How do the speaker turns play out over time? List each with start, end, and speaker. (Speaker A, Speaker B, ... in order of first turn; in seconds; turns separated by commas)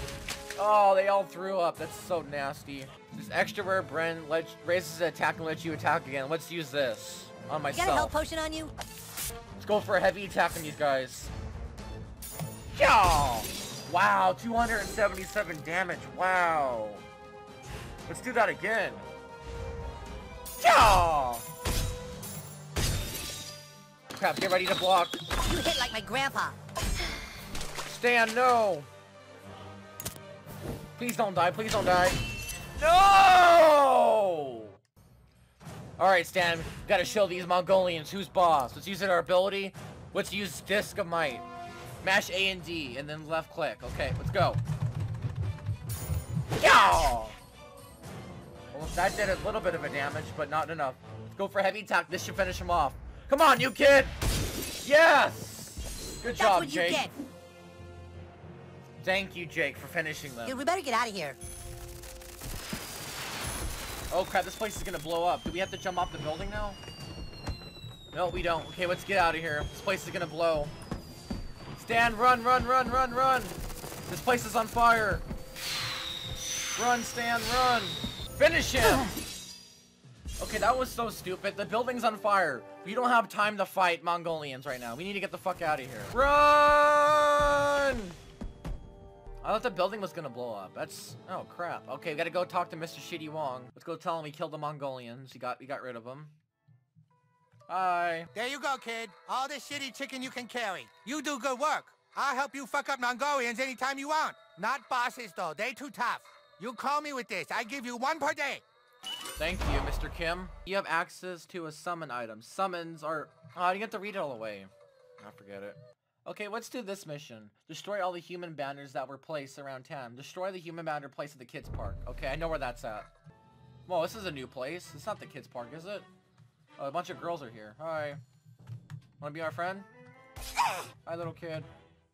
Speaker A: 0.6-8.1, Speaker B: 7.7-8.7, Speaker A: 9.6-11.3, Speaker A: 12.8-17.0, Speaker A: 18.1-19.1, Speaker A: 20.6-21.4, Speaker A: 24.1-25.2, Speaker B: 25.5-26.6, Speaker A: 27.9-28.9, Speaker A: 31.0-32.2, Speaker A: 32.8-34.8, Speaker A: 36.0-41.5, Speaker A: 42.0-44.6, Speaker A: 46.6-47.4, Speaker B: 46.6-47.1, Speaker A: 48.7-54.2, Speaker A: 54.8-57.1, Speaker B: 56.4-57.1, Speaker A: 59.0-60.6, Speaker B: 60.5-61.4, Speaker A: 64.1-66.8, Speaker A: 68.1-70.7, Speaker A: 71.8-75.2, Speaker A: 76.7-79.1, Speaker A: 80.4-88.2, Speaker A: 89.4-96.3, Speaker A: 97.7-98.3, Speaker C: 98.3-108.6, Speaker A: 109.4-123.1, Speaker A: 123.9-126.1, Speaker A: 126.8-128.2, Speaker A: 129.2-129.9, Speaker A: 131.1-131.7